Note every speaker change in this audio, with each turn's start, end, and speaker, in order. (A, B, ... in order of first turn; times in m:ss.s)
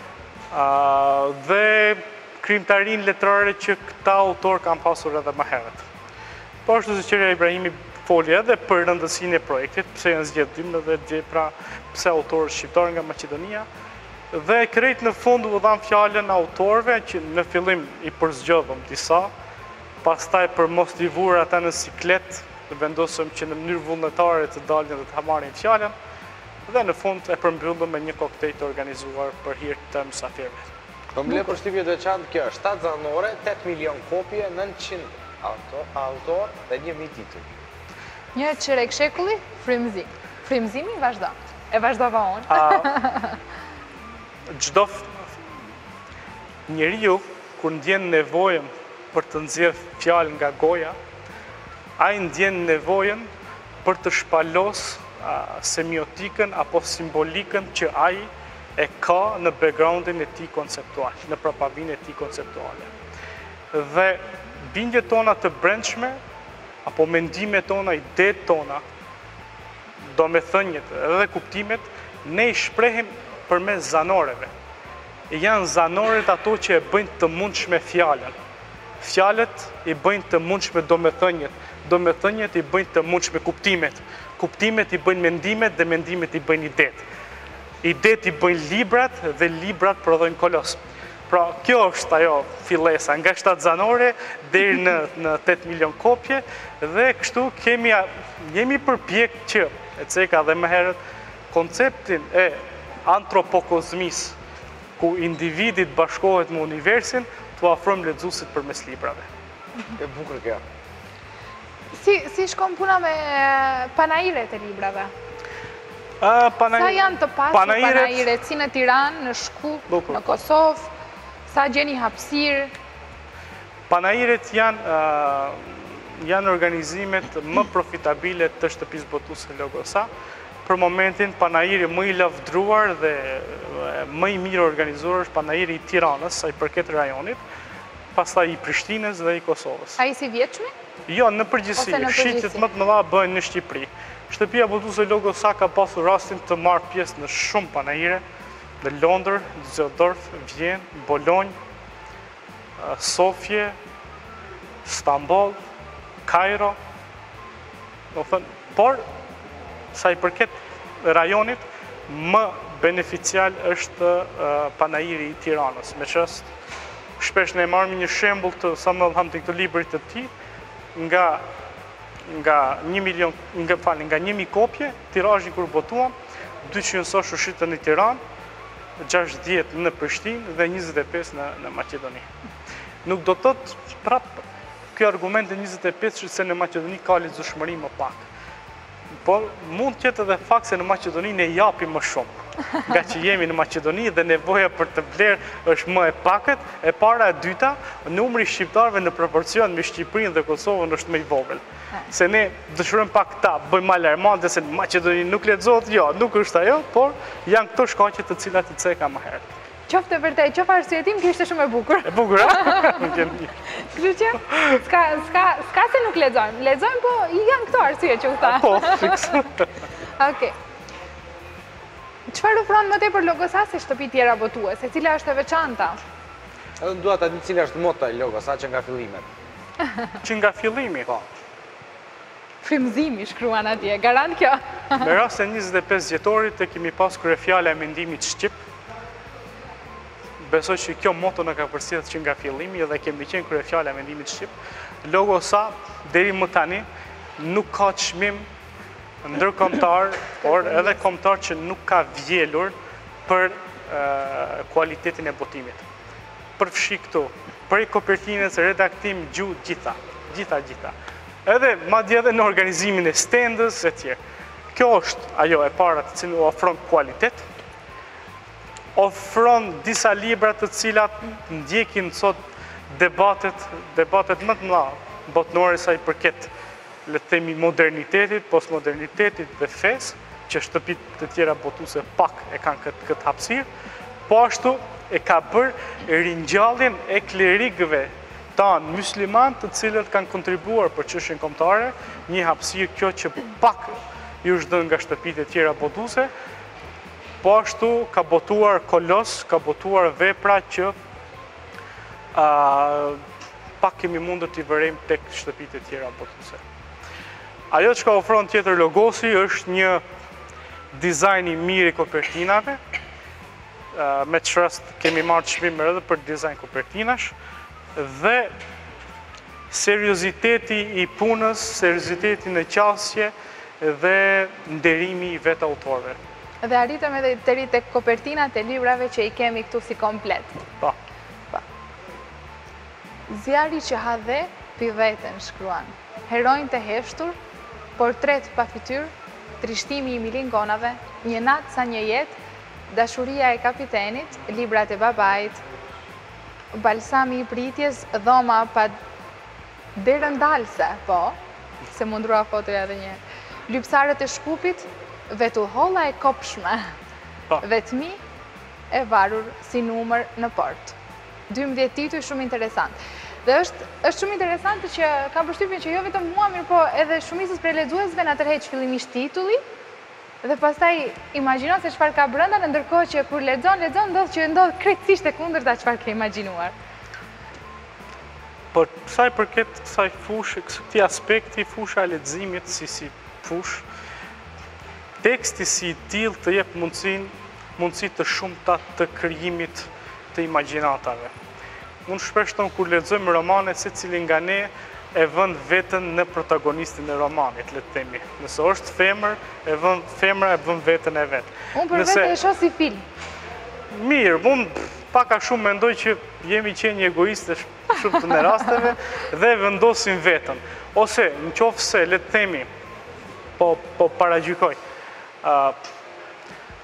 0:00.5-0:05.8 A
0:06.7-0:13.7 A
0:14.3-0:19.3 A
0:20.0-0:25.9 A
0:26.7-0:30.6 A
0:31.1-0:37.5 B
0:38.4-0:43.4 C
0:42.5-0:42.9 A
0:44.5-0:45.3 A
0:46.7-0:51.0 A
0:52.0-0:53.3 A
0:53.8-1:02.9 A
1:03.7-1:06.2 A
1:06.8-1:08.8 A
1:10.1-1:14.5 A
1:15.3-1:18.3 A
1:19.0-1:27.0 A
1:27.8-1:30.8 A
1:31.3-1:41.0 A
1:41.5-1:44.4 A
1:45.0-1:49.3 A
1:50.0-1:50.6 B
1:51.9-1:55.1 C
1:56.2-1:58.3 A
1:56.8-2:00.9 C
1:59.9-2:00.4 A
2:01.5-2:02.7 C
2:03.9-2:10.1 A
2:10.6-2:17.4 A
2:18.2-2:20.0 A
2:20.0-2:20.7 C
2:21.1-2:28.2 A
2:21.8-2:22.6 C
2:28.8-2:31.6 A
2:32.8-2:33.8 A
2:34.8-2:35.6 A
2:36.3-2:36.8 A
2:38.1-2:39.0 A
2:39.9-2:46.5 A
2:47.2-2:50.3 A
2:51.0-2:51.4 A
2:52.3-2:56.1 A
2:56.6-2:58.2 A
2:59.0-3:02.3 A
3:03.0-3:04.4 A
3:04.9-3:08.3 A
3:09.2-3:29.5 A
3:29.9-3:39.4 C
3:32.0-3:33.6 A
3:38.4-3:39.7 A
3:40.2-3:40.6 C
3:42.3-3:46.0 C
3:46.8-3:49.3 B
3:50.2-3:51.1 A
3:52.6-3:55.1 C
3:55.0-3:58.6 A
4:00.4-4:04.5 A
4:05.0-4:06.9 A
4:07.4-4:08.5 A
4:09.2-4:12.8 A
4:10.4-4:10.9 C
4:13.3-4:15.8 A
4:16.6-4:21.0 A
4:21.5-4:24.2 A
4:24.7-4:27.5 A
4:29.0-4:32.4 A
4:32.9-4:36.5 A
4:37.1-4:43.7 A
4:44.3-4:56.3 A
4:57.4-5:01.0 A
5:02.3-5:03.2 A
5:03.8-5:06.6 A
5:07.7-5:10.0 A
5:10.9-5:12.8 A
5:13.9-5:17.4 A
5:18.0-5:18.5 A
5:19.7-5:26.2 A
5:26.6-5:30.6 C
5:33.3-5:37.4 C
5:38.0-5:42.4 C
5:42.9-5:45.6 C
5:46.7-5:49.0 C
5:50.0-5:51.4 C
5:51.9-5:56.9 C
5:57.6-5:58.2 C
5:58.9-6:01.0 C
6:01.5-6:09.6 C
6:10.4-6:16.8 C
6:18.7-6:23.8 A
6:25.2-6:31.3 A
6:32.1-6:42.4 A
6:41.8-6:43.0 C
6:43.9-6:52.7 A
6:53.6-6:54.8 A
6:55.4-6:55.8 A